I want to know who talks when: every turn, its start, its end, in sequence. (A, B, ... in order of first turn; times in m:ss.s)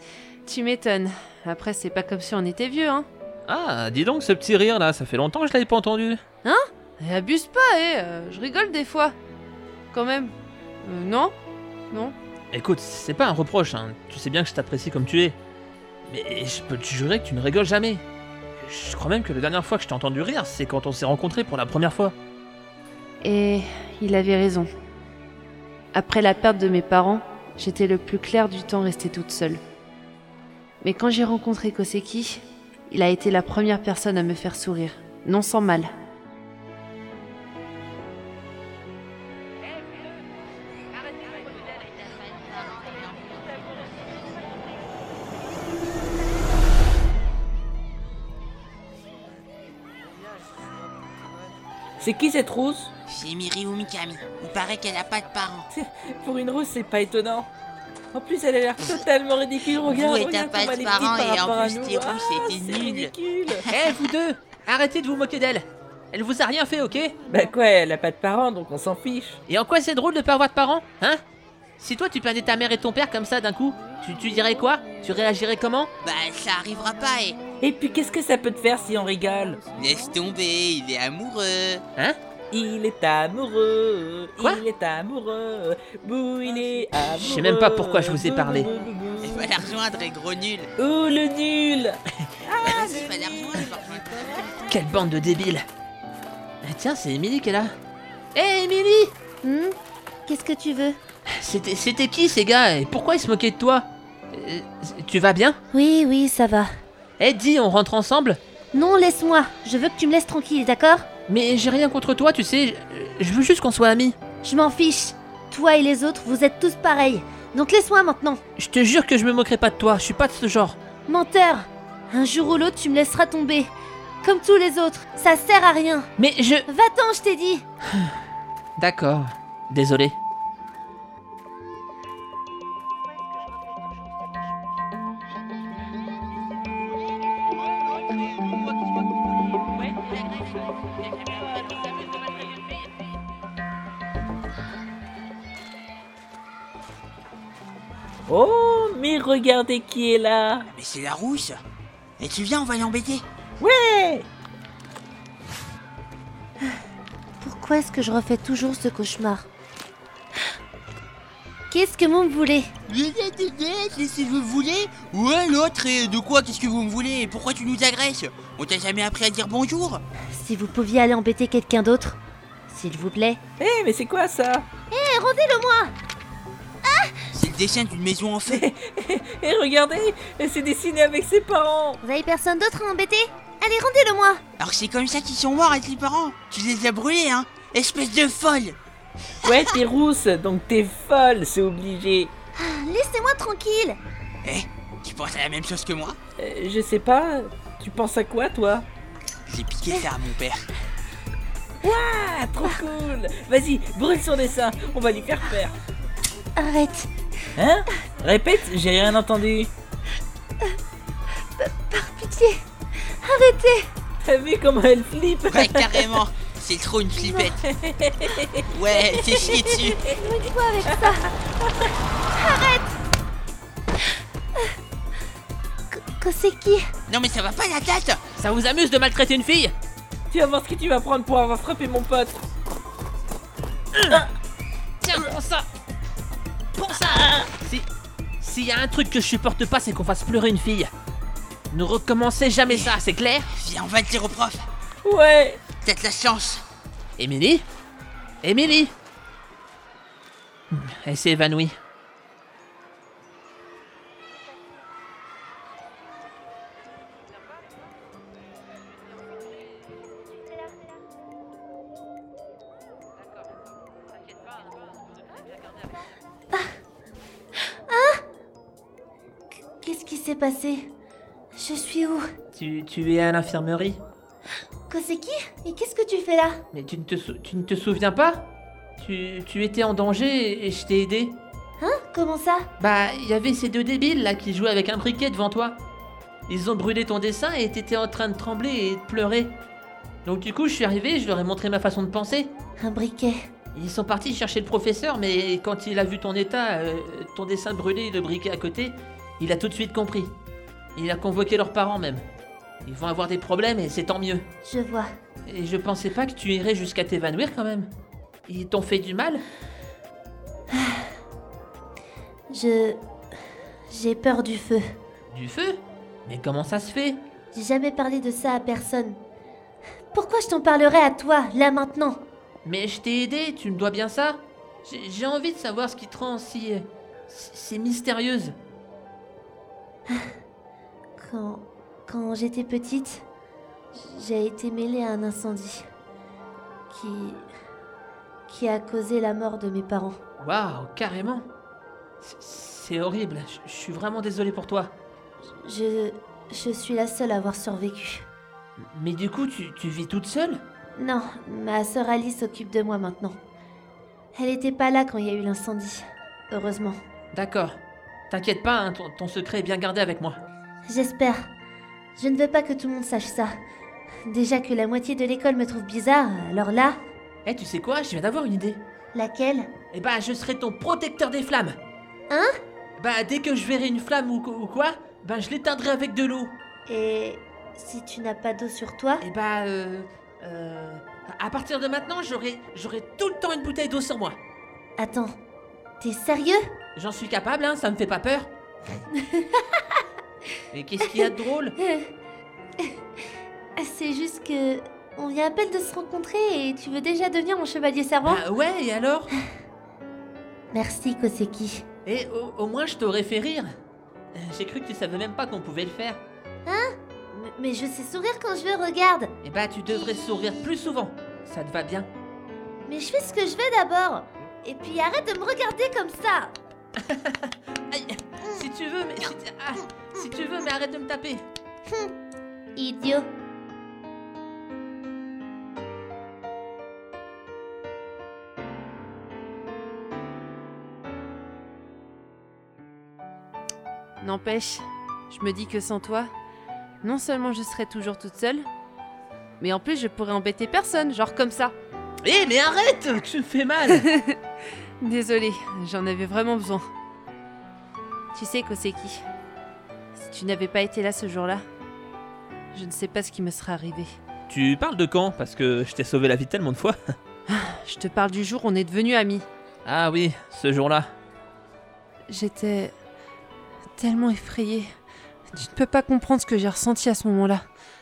0:00.5-0:03.1 A
0:03.5-0:06.2 B
0:06.4-0:09.2 A
0:09.9-0:10.3 A
0:10.8-0:11.3 A
0:12.5-0:15.4 B
0:16.1-0:18.0 B
0:18.6-0:22.2 B
0:23.2-0:24.7 A
0:25.9-0:29.6 A
0:30.8-0:35.9 A
0:52.0-0:52.9 C
0:53.1-0:55.7 D
0:55.7-0:57.5 C
0:58.1-1:03.6 C
0:59.7-1:03.9 D
1:03.7-1:07.2 B
1:07.3-1:09.4 C
1:09.5-1:11.2 B
1:11.8-1:15.9 B
1:16.0-1:17.4 D
1:17.6-1:19.6 C
1:19.8-1:21.8 D
1:22.5-1:29.7 C
1:27.2-1:28.7 B
1:29.2-1:30.7 D
1:30.8-1:32.0 C
1:32.5-1:33.8 C
1:32.6-1:34.6 D
1:34.7-1:35.6 B
1:36.6-1:37.7 B
1:38.4-1:39.1 B
1:39.4-1:39.8 E
1:40.3-1:41.0 E
1:41.4-1:45.6 B
1:45.7-1:46.7 E
1:47.2-1:48.4 B
1:48.7-1:51.1 E
1:51.3-1:54.2 B
1:54.4-1:58.4 E
1:58.6-2:00.8 B
2:01.1-2:03.7 E
2:04.2-2:06.1 E
2:06.2-2:06.7 B
2:06.7-2:07.6 E
2:08.8-2:10.2 B
2:28.3-2:30.7 C
2:30.7-2:31.6 D
2:32.2-2:33.2 D
2:33.6-2:34.3 C
2:37.4-2:39.5 E
2:41.7-2:42.8 E
2:42.9-2:50.0 D
2:50.3-2:53.4 E
2:53.6-2:54.7 C
2:54.9-2:55.9 E
2:56.9-2:57.3 E
2:57.4-2:58.6 D
2:58.5-3:02.0 C
3:02.0-3:04.4 E
3:04.6-3:08.8 D
3:09.4-3:12.3 C
3:12.6-3:14.0 E
3:14.4-3:16.2 D
3:16.4-3:18.9 C
3:19.5-3:20.7 D
3:21.8-3:25.7 C
3:26.6-3:27.1 E
3:27.6-3:29.7 C
3:31.6-3:33.9 E
3:34.2-3:36.2 C
3:35.5-3:37.6 D
3:37.2-3:37.5 E
3:37.6-3:41.9 C
3:38.7-3:40.0 D
3:40.2-3:41.2 E
3:42.4-3:43.0 E
3:45.9-3:46.9 E
3:47.1-3:48.2 D
3:48.4-3:49.7 B
3:50.3-3:52.4 C
3:54.0-3:54.2 B
3:55.0-3:55.7 B
3:56.8-3:57.9 B
3:57.0-3:57.5 C
3:58.4-4:00.9 B
4:01.7-4:03.5 B
4:02.7-4:03.0 D
4:03.5-4:04.6 D
4:05.0-4:05.6 C
4:05.8-4:06.6 D
4:07.2-4:07.6 B
4:08.4-4:08.9 B
4:10.7-4:11.8 B
4:27.9-4:28.2 E
4:29.8-4:30.9 E
4:31.6-4:32.3 E
4:32.5-4:34.0 B
4:34.9-4:36.6 E
4:36.7-4:41.4 B
4:41.8-4:42.7 E
4:42.8-4:45.8 B
4:46.5-4:49.6 B
4:50.2-4:52.5 B
4:52.8-4:53.5 E
4:53.8-5:00.3 B
5:01.0-5:02.2 B
5:02.9-5:04.4 B
5:04.6-5:05.1 E
5:05.5-5:07.9 B
5:08.5-5:09.4 B
5:10.7-5:11.1 E
5:12.5-5:13.0 E
5:13.9-5:14.9 E
5:15.3-5:17.2 B
5:17.5-5:19.2 E
5:20.1-5:22.2 E
5:22.6-5:28.6 B
5:30.1-5:30.4 E
5:31.2-5:33.2 E
5:34.0-5:35.9 E
5:37.0-5:37.4 E
5:38.5-5:40.2 E
5:40.4-5:41.5 B
5:42.2-5:45.0 B
5:45.6-5:48.2 E
5:48.9-5:50.6 B
5:51.0-5:53.4 E
5:54.4-5:55.9 E
5:56.7-5:57.0 E
5:57.3-5:57.8 B
5:58.3-6:00.4 B
6:00.9-6:01.5 E
6:02.2-6:03.6 E
6:04.2-6:07.0 E
6:07.5-6:08.8 B
6:09.1-6:09.7 E
6:09.9-6:11.8 B
6:13.0-6:16.6 B
6:16.9-6:19.2 E
6:19.2-6:24.4 B
6:25.0-6:25.4 E
6:26.0-6:26.7 E
6:27.0-6:28.5 B
6:30.7-6:31.8 B
6:33.8-6:37.9 E
6:37.5-6:38.3 A
6:38.2-6:39.3 B
6:40.7-6:41.8 E
6:42.1-6:43.7 B
6:44.4-6:46.2 B
6:46.7-6:49.3 E
6:49.4-6:52.1 B
6:52.9-6:56.5 E
6:57.0-7:01.4 B
7:01.9-7:02.1 E
7:02.8-7:03.3 E
7:14.2-7:16.3 A
7:17.0-7:18.7 A
7:19.6-7:21.8 A
7:22.2-7:24.1 B
7:23.9-7:24.4 A
7:25.0-7:26.8 A
7:28.3-7:29.2 A
7:30.2-7:31.6 A
7:32.7-7:34.1 A
7:34.5-7:37.0 B
7:37.5-7:39.4 A
7:39.8-7:41.1 B
7:42.3-7:42.9 A
7:44.0-7:44.9 A
7:45.5-7:47.6 A